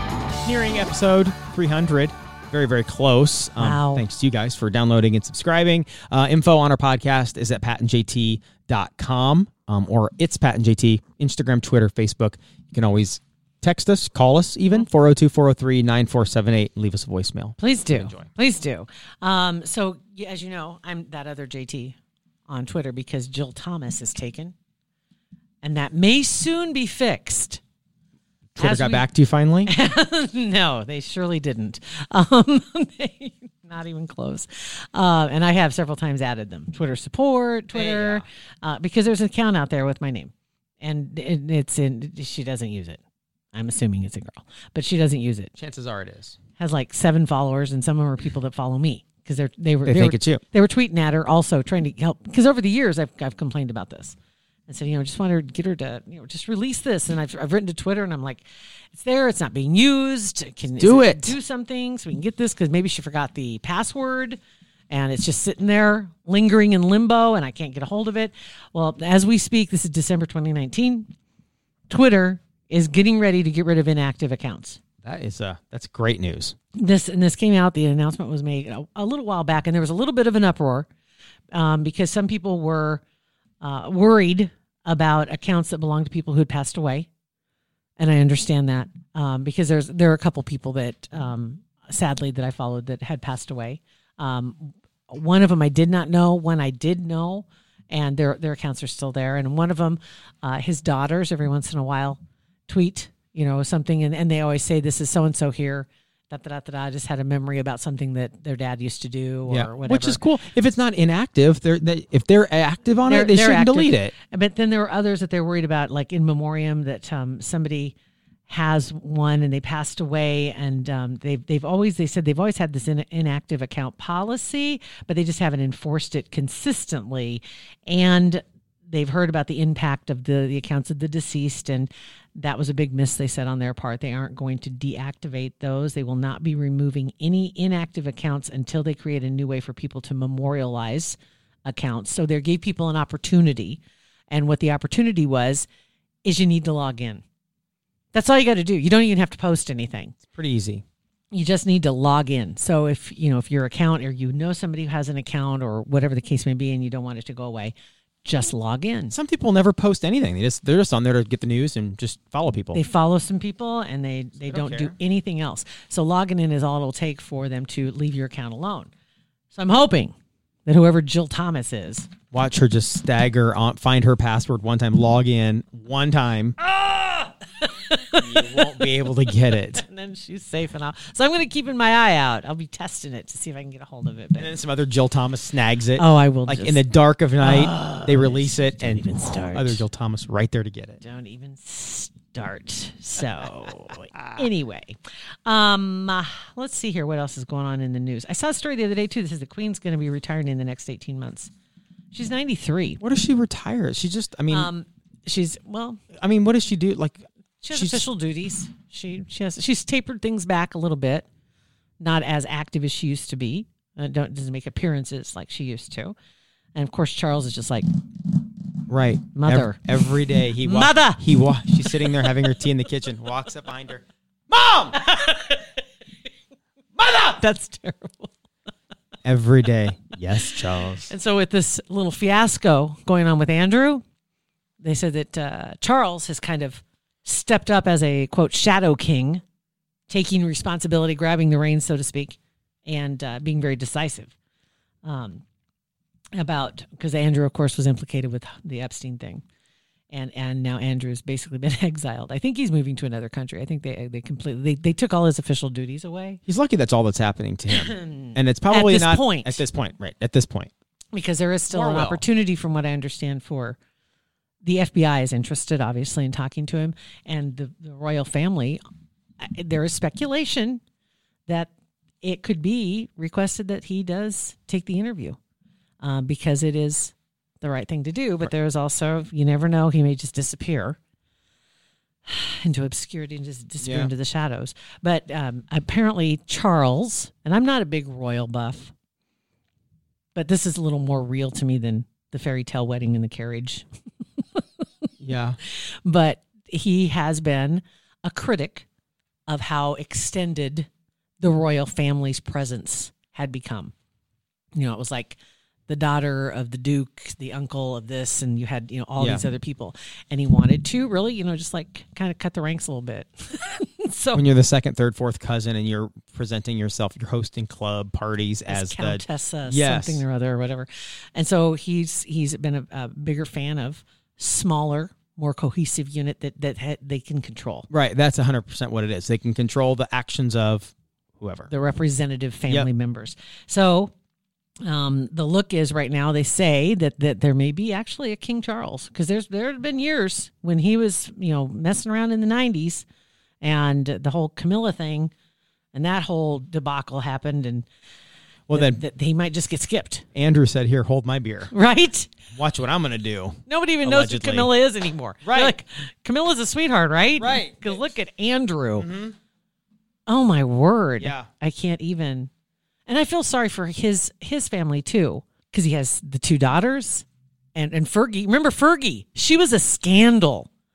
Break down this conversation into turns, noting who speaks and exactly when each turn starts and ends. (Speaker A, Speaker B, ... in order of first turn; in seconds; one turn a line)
Speaker A: 0.5-18.3
Speaker B: 3.6-4.0
Speaker B: 17.6-22.0
Speaker B: 22.5-24.5
Speaker B: 25.6-27.6
Speaker A: 28.6-29.7
Speaker B: 28.6-29.1
Speaker B: 29.7-43.0
Speaker A: 37.7-38.3
Speaker B: 43.5-45.5
Speaker A: 45.6-46.4
Speaker B: 46.6-54.1
Speaker A: 49.9-50.4
Speaker B: 54.7-64.4
Speaker A: 60.8-61.4
Speaker B: 64.9-71.1
Speaker B: 71.9-74.8
Speaker A: 75.0-76.5
Speaker B: 76.8-80.9
Speaker B: 81.5-83.0
Speaker B: 83.6-87.1
Speaker B: 88.0-110.2
Speaker A: 109.5-114.1
Speaker B: 113.1-118.0
Speaker B: 118.5-143.8
Speaker B: 144.3-145.7
Speaker B: 146.2-147.2
Speaker B: 148.1-150.2
Speaker A: 150.3-150.8
Speaker B: 151.3-157.7
Speaker B: 158.2-159.2
Speaker A: 159.1-162.9
Speaker B: 162.7-168.9
Speaker A: 164.4-164.9
Speaker B: 169.5-170.1
Speaker B: 170.7-172.1
Speaker A: 172.3-176.6
Speaker B: 176.6-178.9
Speaker A: 178.1-179.8
Speaker B: 179.5-184.6
Speaker A: 184.4-191.0
Speaker B: 185.9-186.8
Speaker B: 187.4-189.8
Speaker B: 191.0-201.5
Speaker B: 202.1-203.0
Speaker A: 203.0-204.7
Speaker B: 204.5-206.0
Speaker A: 206.2-208.0
Speaker B: 207.6-211.2
Speaker B: 212.0-216.2
Speaker B: 216.8-217.9
Speaker A: 218.9-225.0
Speaker B: 219.3-219.8
Speaker B: 220.6-221.3
Speaker B: 221.8-222.3
Speaker B: 224.9-225.8
Speaker B: 227.0-228.3
Speaker A: 229.2-231.1
Speaker B: 230.4-234.0
Speaker B: 234.8-239.4
Speaker B: 240.1-244.3
Speaker B: 245.0-245.4
Speaker B: 246.4-249.4
Speaker B: 250.1-256.4
Speaker A: 256.5-260.7
Speaker B: 257.7-259.6
Speaker B: 261.1-263.8
Speaker A: 261.7-262.2
Speaker B: 264.6-268.8
Speaker B: 269.4-270.8
Speaker B: 272.2-275.4
Speaker B: 276.0-281.0
Speaker B: 282.3-288.9
Speaker A: 283.8-284.1
Speaker B: 290.4-293.9
Speaker B: 294.4-294.9
Speaker A: 295.2-295.6
Speaker B: 295.7-298.9
Speaker B: 299.5-300.9
Speaker B: 301.4-303.9
Speaker B: 304.8-314.4
Speaker A: 309.2-309.4
Speaker A: 314.3-320.2
Speaker B: 318.7-327.9
Speaker A: 327.9-331.7
Speaker B: 331.7-334.1
Speaker B: 334.8-343.1
Speaker B: 343.6-345.3
Speaker B: 345.9-347.9
Speaker A: 348.7-349.0
Speaker B: 348.7-350.2
Speaker A: 350.4-351.7
Speaker B: 351.7-352.3
Speaker A: 352.5-354.7
Speaker B: 353.7-359.1
Speaker A: 355.4-355.8
Speaker A: 357.4-358.1
Speaker A: 359.0-359.4
Speaker B: 360.3-362.5
Speaker A: 361.2-361.5
Speaker B: 363.1-370.7